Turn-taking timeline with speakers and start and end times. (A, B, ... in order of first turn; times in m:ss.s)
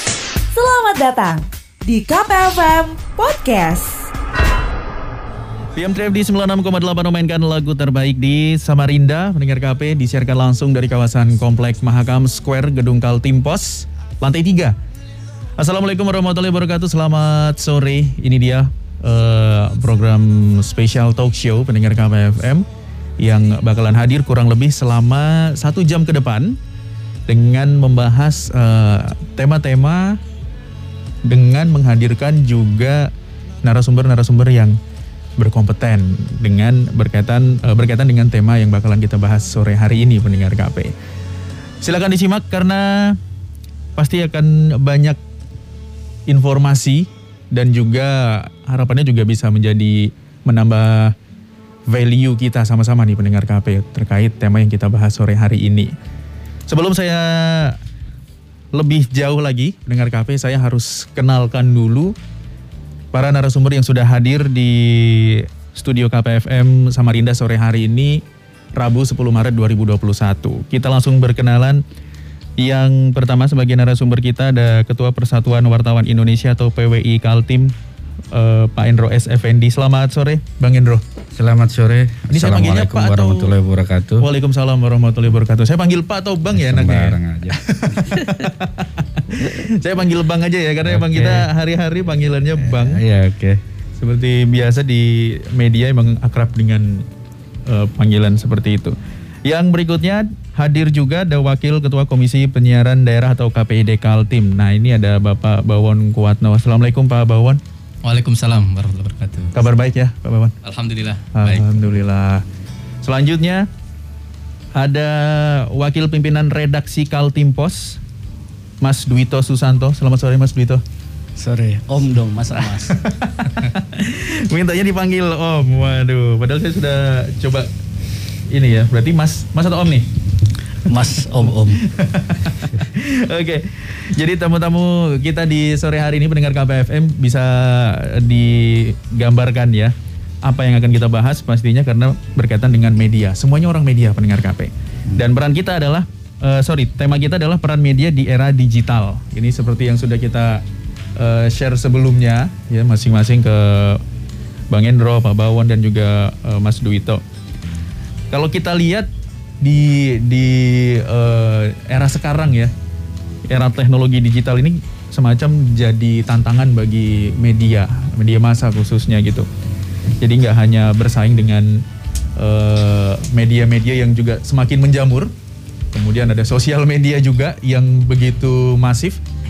0:00.5-0:04.1 A
0:05.7-0:14.7 B
0:15.6-0:22.6 B
0:23.2-0:26.6 B
0:27.3-0:30.2 B
0:31.2-0:33.1 B
0:33.6-0:34.7 B
0:35.4-0:40.9 B
0:41.8-0:43.2 B
0:44.0-0:45.2 B
0:46.3-0:51.1 B
0:51.9-0:55.9 B
0:56.7-0:57.8 B
0:58.7-1:02.1 B
1:03.1-1:08.2 B
1:08.7-1:11.8 B
1:12.6-1:17.7 B
1:18.3-1:21.0 B
1:21.3-1:24.3 C
1:22.3-1:23.5 B
1:24.2-1:27.1 B
1:26.5-1:28.2 C
1:27.7-1:33.0 B
1:30.8-1:31.5 C
1:32.6-1:33.6 C
1:34.0-1:37.0 B
1:37.6-1:47.6 B
1:48.0-1:49.6 D
1:49.6-1:50.5 B
1:50.6-1:51.9 D
1:51.4-1:52.4 B
1:53.0-1:53.6 B
1:54.7-1:58.0 B
1:58.8-2:00.8 B
2:01.4-2:03.0 E
2:02.9-2:07.7 B
2:08.5-2:10.1 B
2:10.8-2:11.8 E
2:11.9-2:19.9 B
2:20.4-2:30.6 B
2:31.2-2:34.0 B
2:34.7-2:37.2 B
2:38.3-2:39.1 B
2:39.6-2:42.7 B
2:43.5-2:49.5 B
2:50.2-2:51.8 B
2:52.4-2:55.3 B
2:55.9-2:59.2 B